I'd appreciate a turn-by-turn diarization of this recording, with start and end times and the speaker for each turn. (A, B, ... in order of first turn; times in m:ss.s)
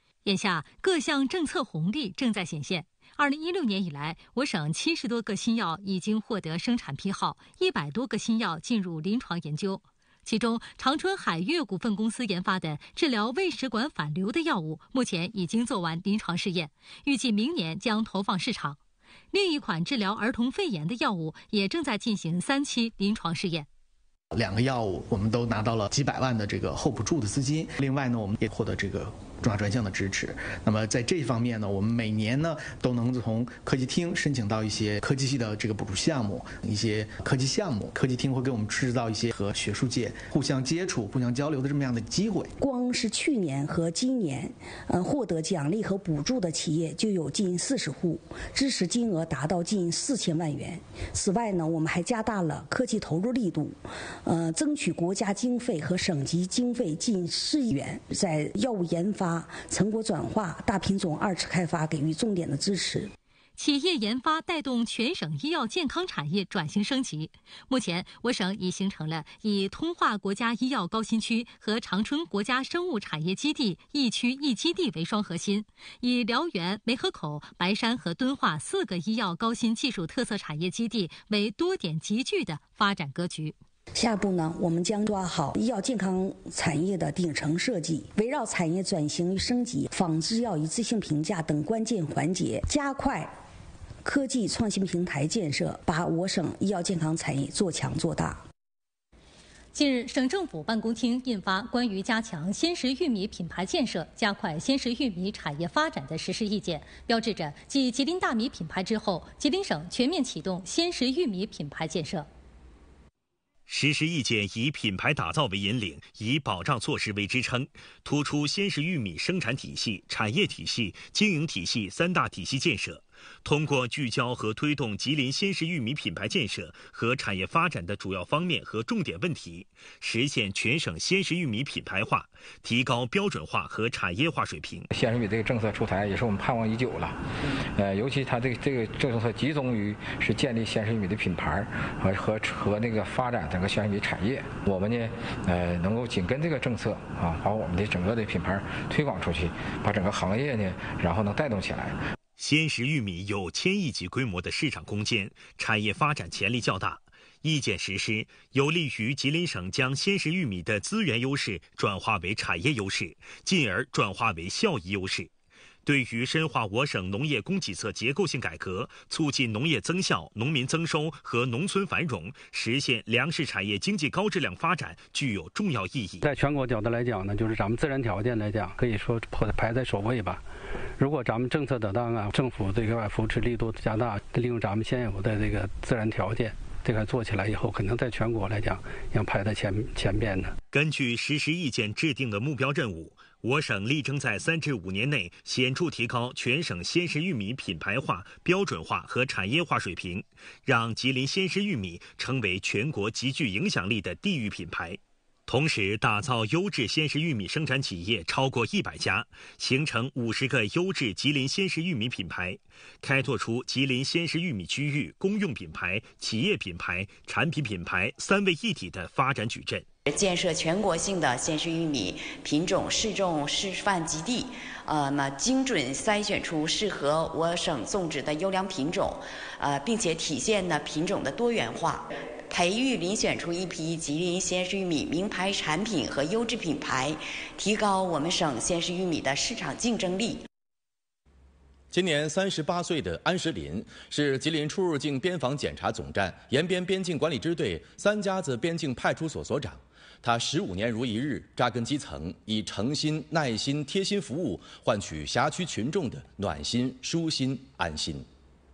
0:00.2-0:18.8 A
0:19.3-0:23.7 A
0:24.3-0:42.5 B
0:42.6-1:03.1 C
1:03.6-1:23.6 A
1:24.0-1:33.3 C
1:34.0-1:38.4 C
1:39.7-1:52.3 A
1:53.7-2:14.9 D
2:14.9-2:32.0 E
2:32.4-2:45.3 D
2:45.8-2:56.3 D
2:56.2-3:00.4 F
3:01.0-3:10.5 F
3:10.7-3:39.8 D
3:40.1-4:00.4 G
4:01.9-4:18.2 H